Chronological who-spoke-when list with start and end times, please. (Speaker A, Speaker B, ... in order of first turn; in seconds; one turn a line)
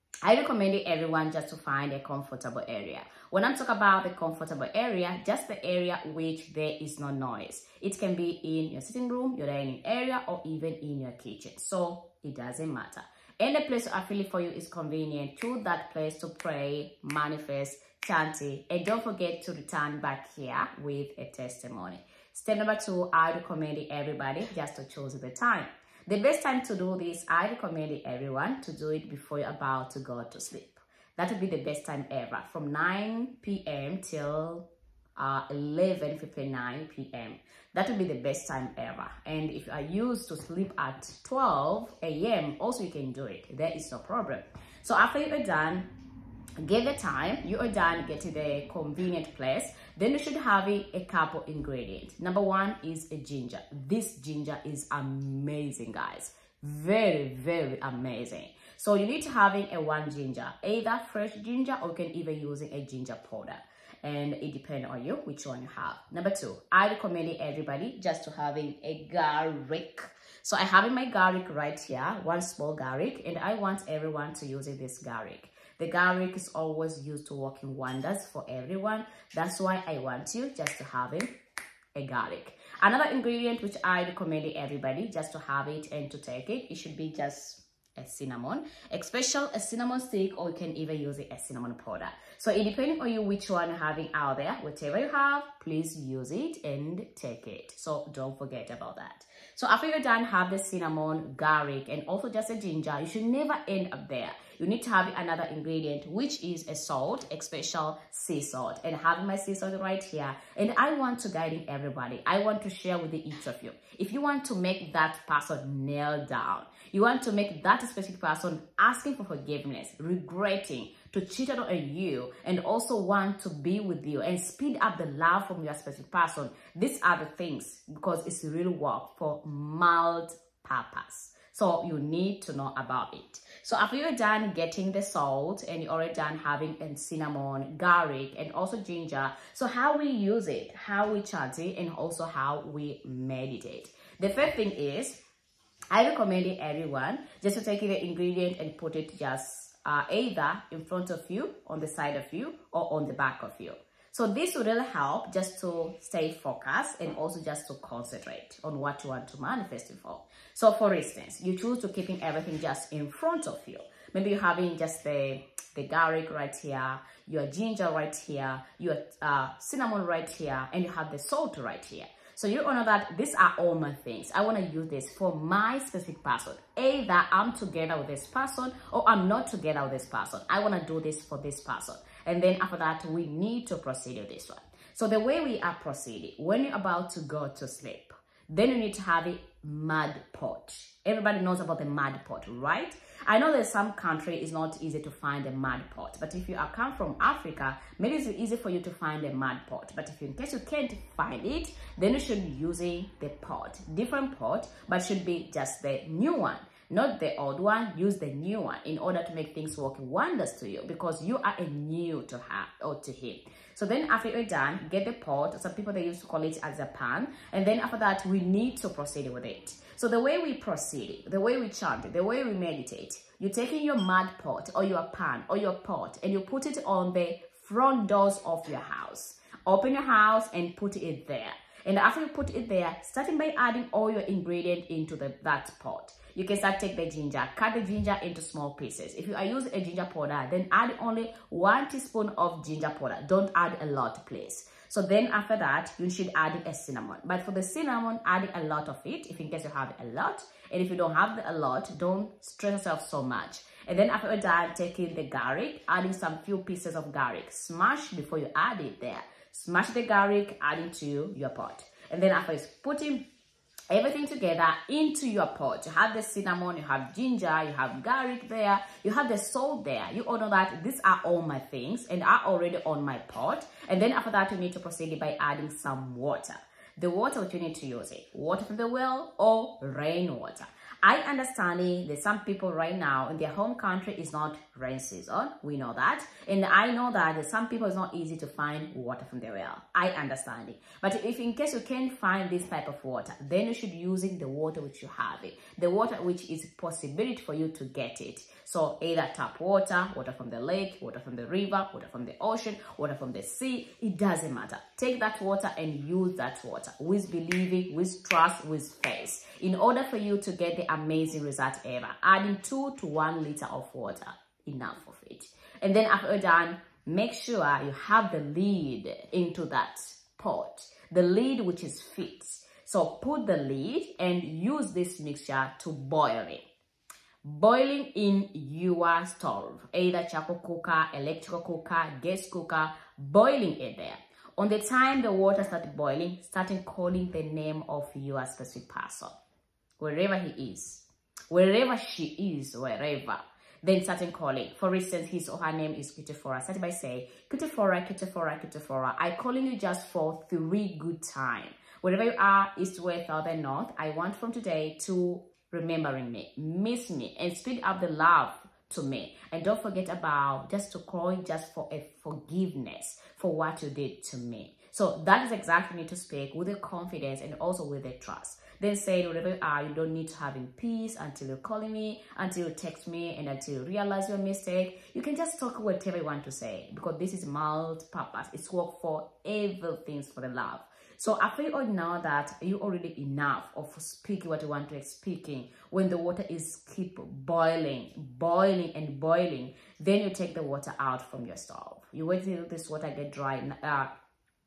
Speaker A: 0.2-45.9
Speaker A: 46.6-81.3
Speaker A: 81.9-145.2
Speaker A: 145.9-263.3
Speaker A: 263.9-326.6
Speaker A: 327.4-339.4
Speaker A: 340.0-394.1